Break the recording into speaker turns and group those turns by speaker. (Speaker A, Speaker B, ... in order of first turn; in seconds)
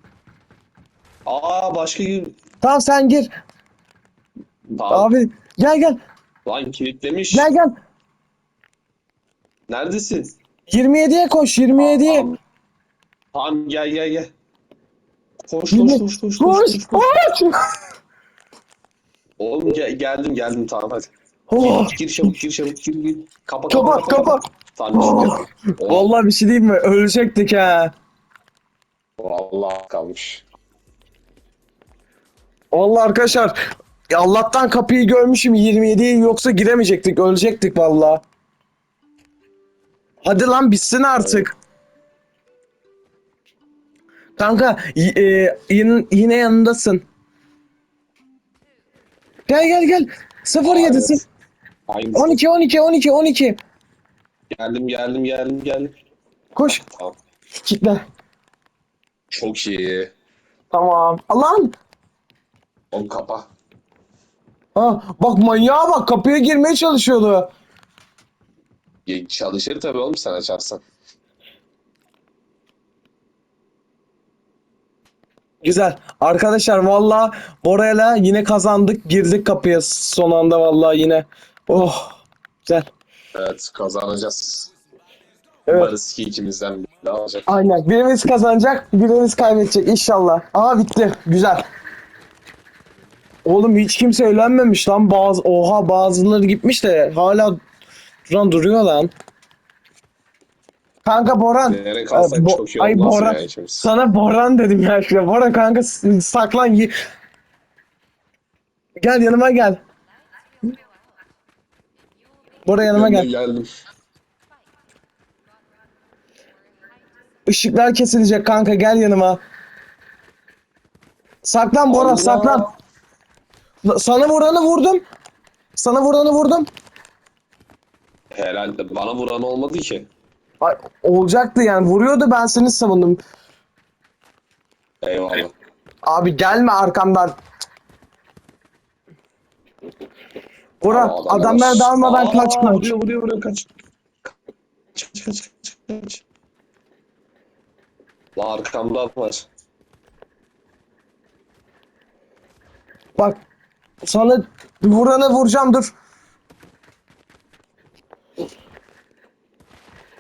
Speaker A: 1.3-2.4, 4.8-5.1, 6.5-7.5, 9.7-10.3, 11.8-12.4, 13.3-14.3, 15.5-17.1, 19.4-26.1, 29.2-30.4, 41.2-41.5, 50.6-51.2, 51.9-52.4, 54.5-55.9, 56.7-57.2, 59.3-60.1, 62.9-63.5, 69.1-70.8, 83.3-84.7, 85.7-87.5, 101.7-103.9, 112.8-113.7, 121.9-122.7, 128.3-130.1, 135.0-135.5, 140.9-143.7, 144.9-146.2, 148.4-149.4
Speaker B: 2.6-3.3, 4.9-6.0, 7.3-7.8, 10.7-12.3, 15.7-17.7, 21.5-22.0, 23.7-24.4, 24.9-27.9, 32.7-33.6, 34.1-38.2, 40.2-41.5, 44.4-47.0, 49.5-51.2, 52.1-53.6, 56.5-56.8, 57.6-58.0, 60.7-61.7, 64.8-67.5, 75.6-82.9, 85.7-85.9, 87.5-91.7, 93.5-97.6, 98.3-99.1, 101.0-107.0, 109.0-109.8, 112.7-113.3, 117.5-119.4, 121.4-122.7, 123.8-125.0, 125.8-126.7, 130.6-133.2, 136.1-137.4, 140.8-142.9, 154.1-155.9